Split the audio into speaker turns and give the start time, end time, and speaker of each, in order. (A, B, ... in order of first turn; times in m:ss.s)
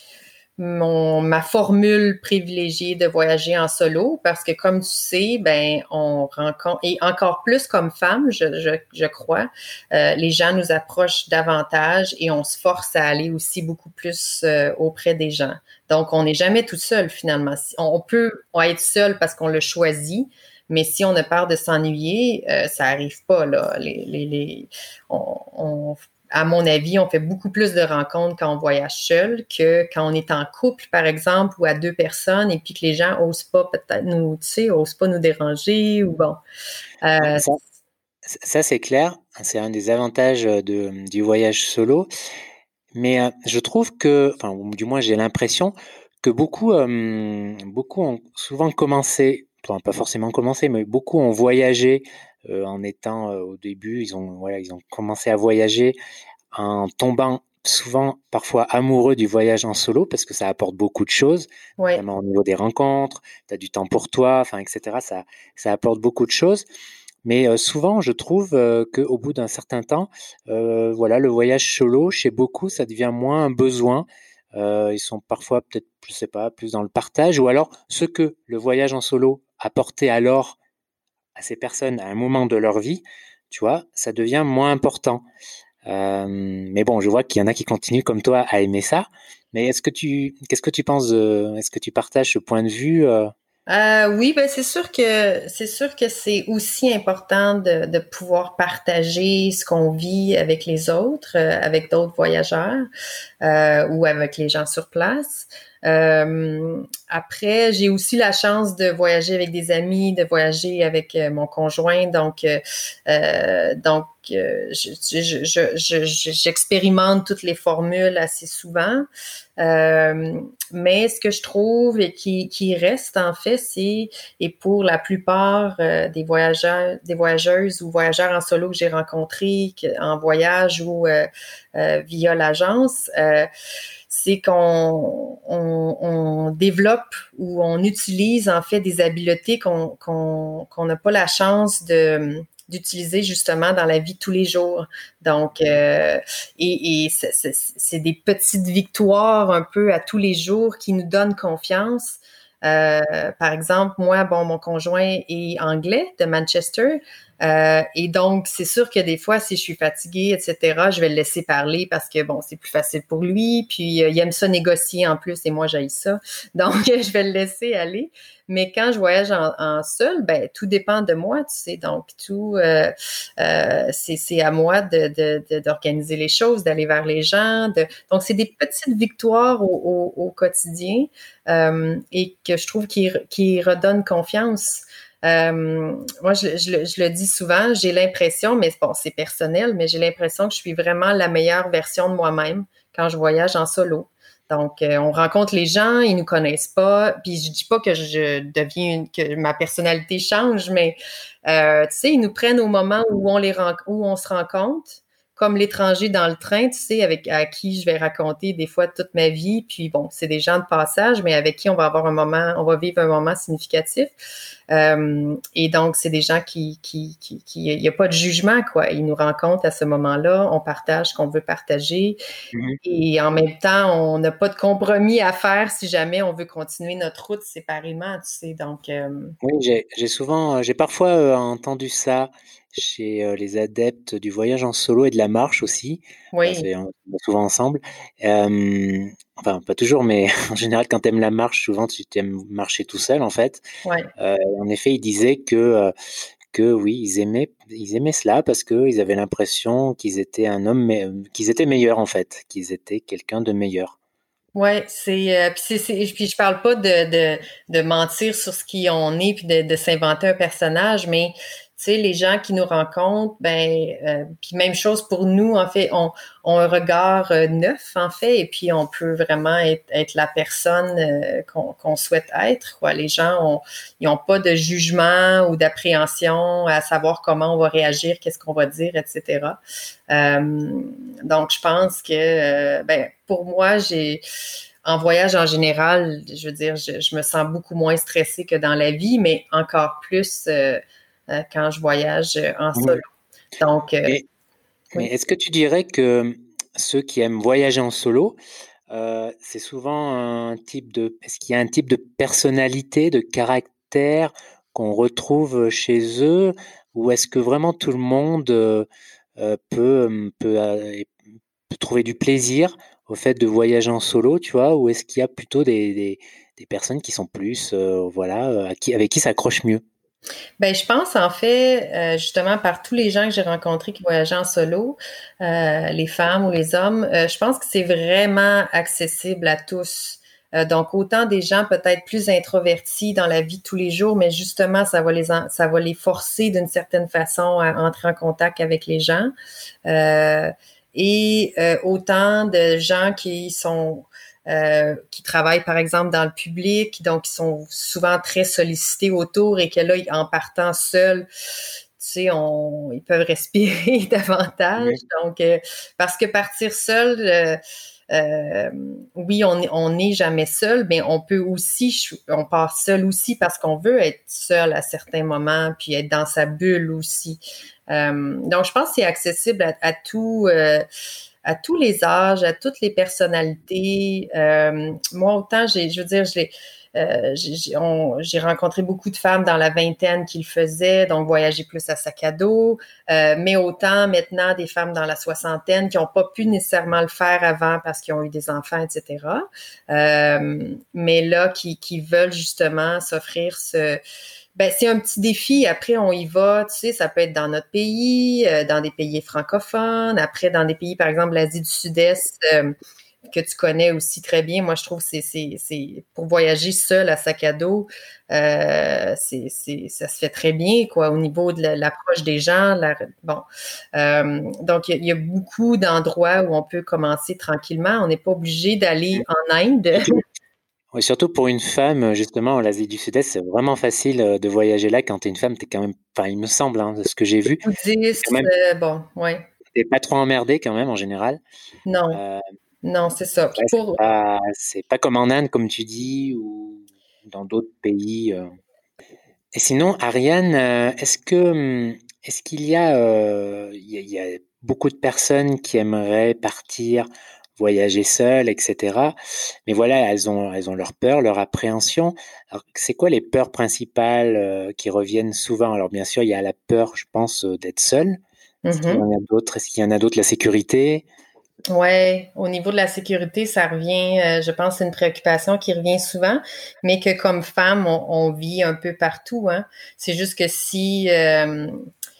0:00.6-0:36.4 A
0:37.0-0:37.5 A
0:37.2-0:37.6 B
0:38.2-0:42.1 B
0:42.9-0:56.0 B
0:56.5-1:06.6 B
1:01.8-1:02.0 A
1:07.2-1:20.6 B
1:21.4-1:25.2 B
1:25.9-1:33.3 B
1:33.7-1:42.8 A
1:43.4-1:59.0 A
1:59.6-2:13.5 A
2:14.1-3:21.0 A
3:21.5-3:34.1 A
3:34.7-3:42.2 A
3:42.5-3:42.8 B
3:42.8-3:49.4 A
3:49.4-4:03.6 B
3:56.3-3:56.7 A
4:03.8-4:04.1 A
4:04.2-4:05.9 B
4:06.5-4:13.9 B
4:14.5-4:39.6 A
4:40.1-4:44.2 A
4:44.8-4:53.0 A
4:53.6-4:54.2 A
4:54.9-4:58.4 B
4:58.9-5:11.1 B
5:11.7-5:19.8 B
5:20.6-5:39.3 A
5:39.9-5:51.3 A
5:52.0-5:57.6 A
5:58.1-6:10.8 A
6:11.4-6:34.0 A
6:34.6-6:42.7 A
6:43.3-6:53.4 A
6:54.0-7:00.2 A
7:00.9-7:07.6 B
7:07.6-7:09.4 A
7:08.2-7:08.5 B
7:09.7-7:11.4 B
7:11.8-7:12.2 A
7:12.1-7:12.4 B
7:12.8-7:14.0 A
7:13.6-7:18.5 B
7:19.5-7:29.2 B
7:29.7-7:38.2 B
7:38.6-7:39.0 A
7:38.7-7:41.0 B
7:41.7-7:51.8 A